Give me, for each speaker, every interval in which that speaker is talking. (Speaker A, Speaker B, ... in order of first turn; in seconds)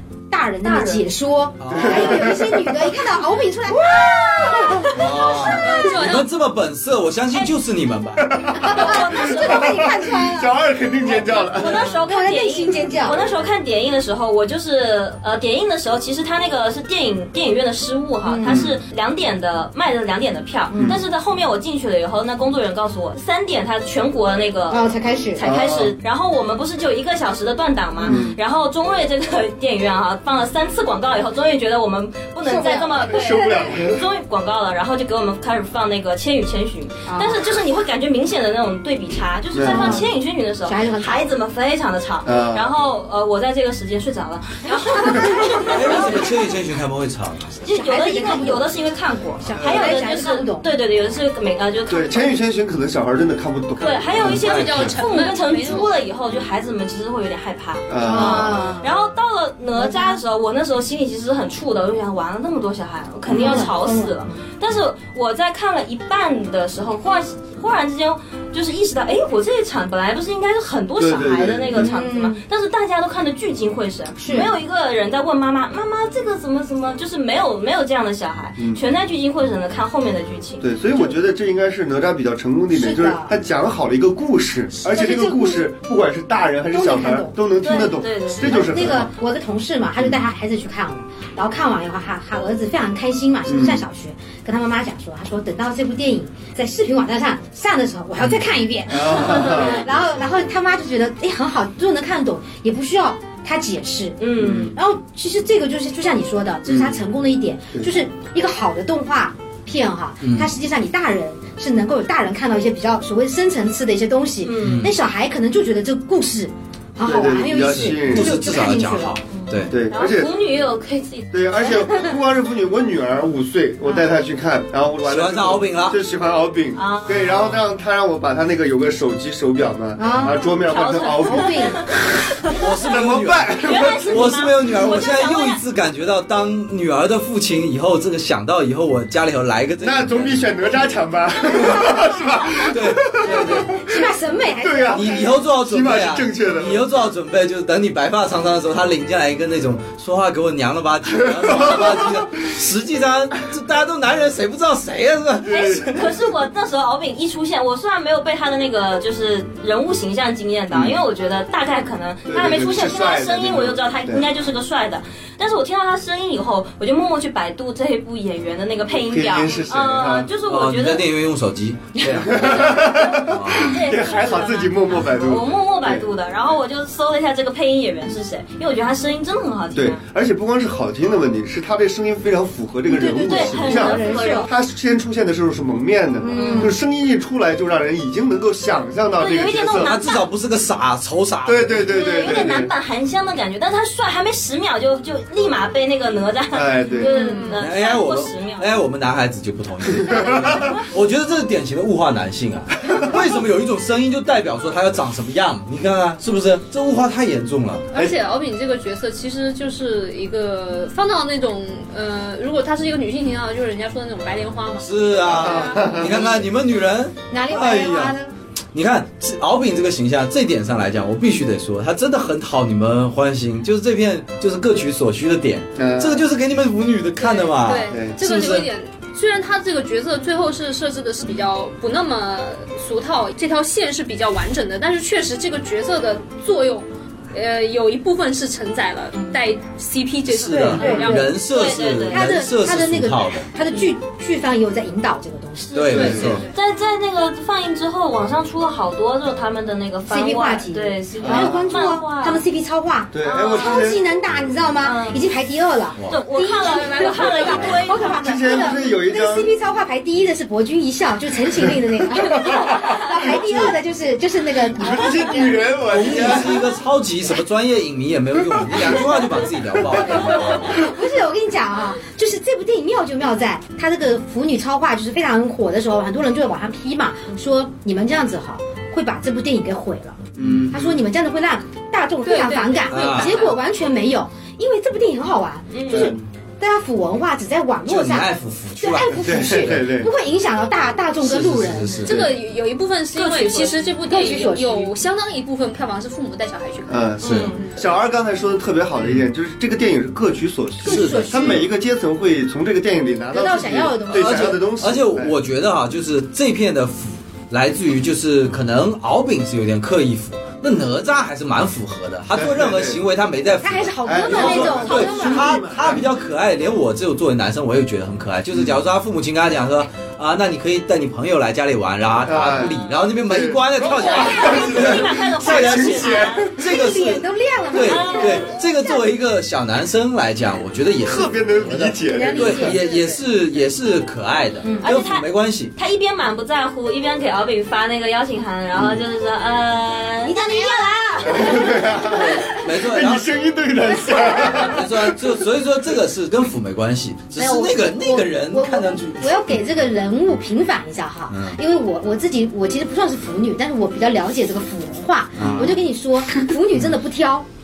Speaker A: 0.3-5.7, 8.6-10.5, 12.0-13.2, 18.2-18.6, 20.7-21.0, 24.7-25.4, 32.4-33.7, 37.1-37.4, 39.6-40.1, 40.6-41.3, 44.6-46.2, 47.7-48.7, 49.4-50.7, 58.0-58.9, 59.7-60.2, 63.3-64.3, 71.7-72.4, 74.2-74.5, 82.7-83.3, 84.8-85.7, 86.7-87.4, 88.4-119.2, 130.0-130.4, 131.0-131.8, 143.7-145.3, 182.9-184.5, 186.2-186.8, 197.1-197.5, 217.3-218.3, 240.5-241.4, 242.1-246.1, 250.1-265.6, 270.2-292.0, 294.0-294.9, 300.8-301.7, 303.3-304.6, 313.6-315.6, 326.5-329.0, 332.1-332.8, 334.6-334.9, 340.2-342.5, 343.9-344.6, 347.4-357.4
Speaker B: 0.6-1.0, 4.1-4.9, 8.6-9.8, 11.1-46.3, 47.6-52.4, 53.8-80.7, 87.6-88.8, 99.4-99.7, 104.2-104.7, 114.4-114.9, 119.3-122.0, 126.7-127.4, 130.2-132.6, 133.6-135.6, 155.5-171.1, 172.2-180.0, 183.2-184.5, 186.3-186.7, 189.2-190.2, 191.9-198.7, 240.8-242.3, 245.7-252.4, 253.2-254.0, 254.8-255.2, 256.1-258.6, 270.2-270.5, 285.7-286.1, 293.1-293.9, 297.2-297.6, 314.5-315.2, 323.9-326.5, 327.7-328.5, 334.8-341.8
Speaker C: 1.6-2.4, 4.9-8.4, 45.7-47.5, 53.8-55.0, 110.2-110.5, 114.6-114.9, 117.5-119.7, 125.0-126.0, 127.2-127.5, 132.5-140.5, 142.7-143.8, 144.9-156.1, 170.5-173.7, 189.7-192.2, 197.6-207.9, 214.8-218.2, 218.7-228.7, 240.3-243.5, 245.7-246.4, 256.0-256.2, 265.9-270.7, 280.4-280.7, 282.9-283.4, 287.9-289.8, 291.2-292.2, 297.2-297.5, 300.8-301.7, 304.1-335.7, 342.5-343.3, 344.4-349.4, 351.3-351.6, 355.4-355.8
Speaker D: 1.7-2.9, 8.2-11.9, 18.4-18.8, 20.8-21.0, 25.4-25.9, 28.0-28.4, 33.0-34.0, 39.5-40.0, 42.2-42.7, 49.5-50.0, 51.9-54.4, 57.9-58.6, 63.3-63.7, 71.0-71.9, 80.6-89.1, 93.5-93.8, 98.9-99.9, 104.4-104.7, 106.7-107.0, 117.0-118.4, 119.7-120.3, 121.3-131.5, 132.9-134.3, 139.8-144.1, 144.6-146.8, 151.2-152.3, 155.4-156.0, 160.7-161.0, 162.3-164.2, 168.9-170.3, 172.1-176.1, 179.7-189.9, 191.4-192.7, 196.5-197.1, 199.9-200.7, 215.3-216.4, 225.8-226.3, 227.9-228.2, 245.9-246.4, 251.2-251.9, 253.1-254.0, 258.2-259.5, 261.7-263.7, 264.6-266.7, 280.4-281.0, 285.9-286.2, 289.1-290.1, 292.1-292.4, 296.9-305.3, 312.3-313.0, 314.0-316.1, 322.2-322.8, 323.3-326.5, 331.0-332.8, 341.2-345.3, 355.4-355.7
Speaker E: 5.5-6.3, 54.2-56.0, 197.0-197.6, 207.9-216.4, 227.2-241.4, 245.9-246.5, 256.6-257.7, 282.2-283.5, 292.0-297.0, 332.8-333.2